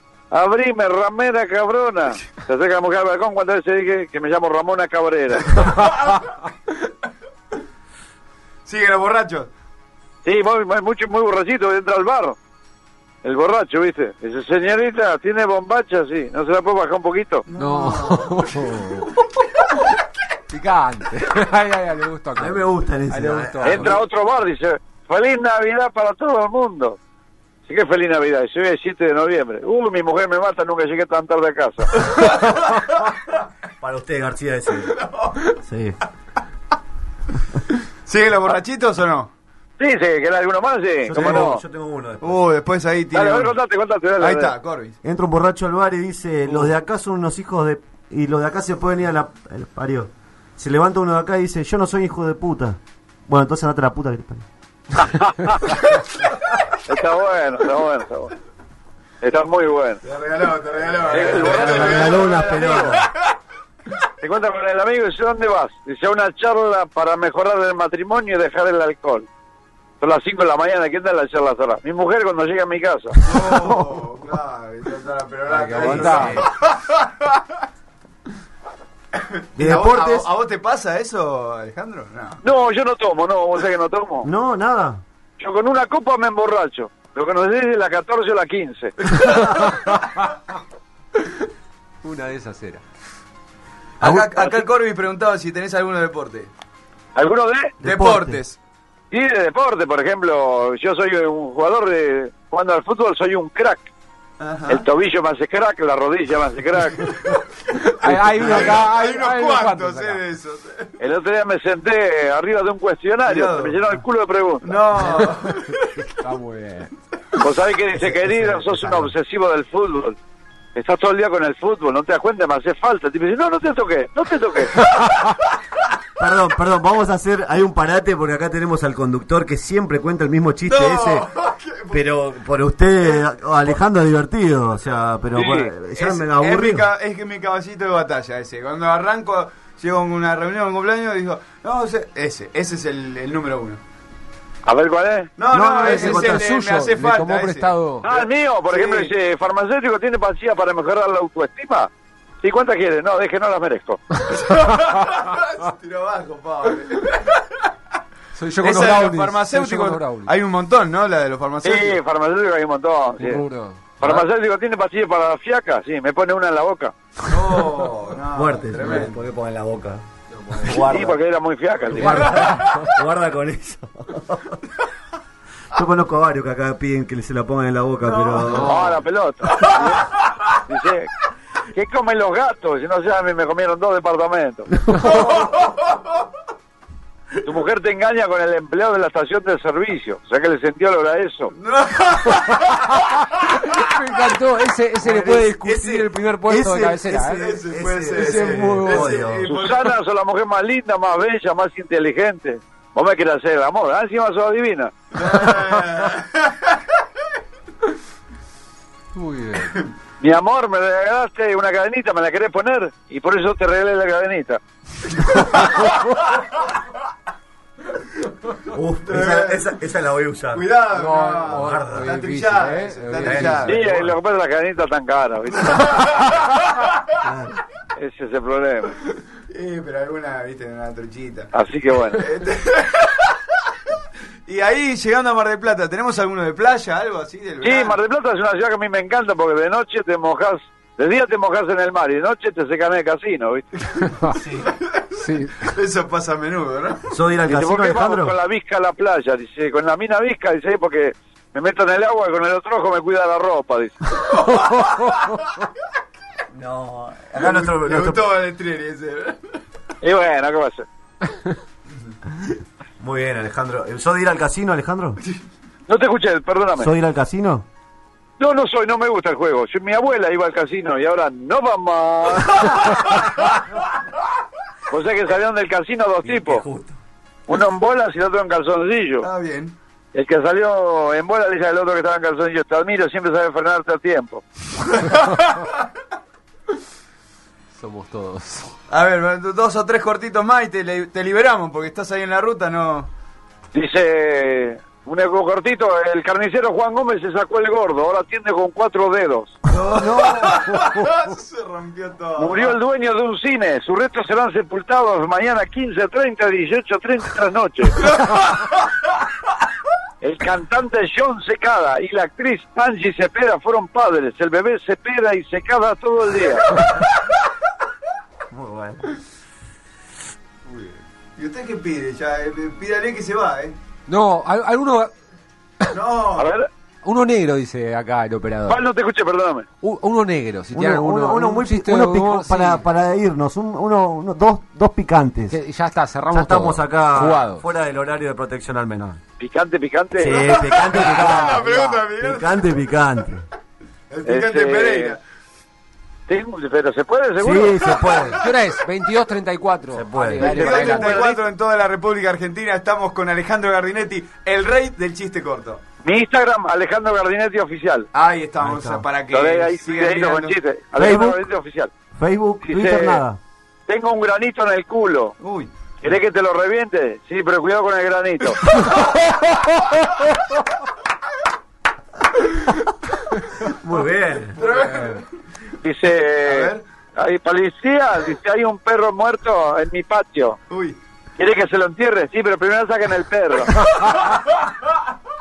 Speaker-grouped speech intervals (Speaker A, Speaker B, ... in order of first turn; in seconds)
Speaker A: 0.3-5.6, 10.2-12.4, 13.2-17.4, 23.6-27.0, 27.6-32.1, 39.8-41.6, 43.1-44.5, 55.0-55.8, 56.9-58.3, 59.2-60.0, 61.1-63.0, 64.2-69.3, 70.0-73.2, 82.4-84.3, 85.4-89.0, 97.2-97.7, 99.1-103.9, 104.7-107.1, 111.0-114.7, 117.4-120.2, 120.7-124.9, 135.3-135.7, 144.7-145.3, 148.0-151.9, 152.4-154.0, 161.6-163.4, 164.0-166.9, 170.7-172.2, 178.6-181.1, 181.7-184.7, 187.4-191.5, 199.4-204.9, 210.2-214.6, 223.7-226.3, 228.0-228.9, 231.5-232.2, 237.6-243.8, 247.5-254.0, 260.0-260.9, 265.9-266.9, 268.4-273.1, 274.9-276.6, 277.5-279.3, 280.1-284.4, 293.7-299.6, 302.4-308.0, 310.2-316.9, 326.4-326.7, 328.7-329.7, 339.4-340.5, 344.2-345.2, 346.3-348.2, 350.4-351.4, 356.0-358.1, 359.3-361.9, 362.6-363.2, 363.9-365.4, 366.0-368.6, 375.8-380.6, 381.4-383.9
Speaker B: 5.6-6.1, 17.5-19.1, 20.5-23.9, 75.5-76.4, 89.5-90.2, 92.0-92.8, 107.7-110.2, 115.0-116.9, 125.0-125.2, 145.7-148.1, 158.3-160.3, 163.2-164.3, 170.4-170.8, 171.9-172.9, 178.5-179.0, 185.0-185.2, 193.6-197.5, 198.1-199.2, 209.1-209.8, 220.9-223.8, 244.0-244.4, 245.2-245.7, 287.8-288.7, 324.1-325.1, 327.0-328.8, 329.8-332.8, 335.5-337.6, 341.1-342.0, 348.1-351.2, 374.7-375.2
Speaker C: 5.8-6.2, 8.6-9.5, 17.5-18.6, 35.1-35.4, 37.7-39.3, 41.1-41.5, 42.2-43.5, 44.2-45.0, 60.0-63.2, 73.2-77.6, 79.2-82.4, 89.0-90.2, 94.0-96.5, 97.8-98.6, 104.4-104.8, 108.0-110.9, 113.2-113.8, 114.6-115.9, 130.6-132.0, 135.9-143.8, 145.4-149.1, 154.3-157.6, 158.6-162.0, 167.2-169.2, 172.2-172.6, 178.1-178.6, 179.6-180.3, 185.0-185.8, 191.5-193.9, 195.0-196.0, 197.3-199.9, 205.1-206.8, 215.3-216.2, 219.0-219.6, 220.5-224.1, 225.7-227.1, 229.5-231.5, 232.1-233.3, 234.4-238.0, 244.3-247.0, 254.5-255.4, 257.4-259.4, 279.2-279.8, 284.9-285.8, 288.9-293.1, 299.7-302.8, 308.0-308.8, 320.7-323.8, 325.9-326.6, 340.5-342.6, 344.1-345.2, 350.4-355.8, 358.1-360.6, 365.4-365.7, 374.6-375.2, 376.4-376.8, 380.7-381.0, 384.2-384.5
Speaker D: 22.4-24.0, 33.8-36.0, 41.0-42.4, 45.0-54.5, 61.4-63.0, 75.8-76.5, 79.5-80.3, 84.2-85.0, 97.8-98.4, 108.4-108.7, 117.9-119.1, 126.2-131.3, 131.9-136.8, 145.5-146.5, 168.3-170.0, 170.6-171.2, 171.9-174.6, 175.7-178.8, 195.2-199.5, 218.7-220.6, 221.5-222.1, 223.2-223.8, 227.2-227.6, 247.1-248.3, 256.5-258.2, 263.0-265.2, 266.8-267.6, 276.2-277.0, 300.0-300.6, 318.5-319.2, 330.7-335.6, 336.3-339.2, 340.1-343.4, 347.4-348.4, 349.9-350.7, 358.6-359.1, 361.0-361.5, 362.1-363.4, 373.6-374.6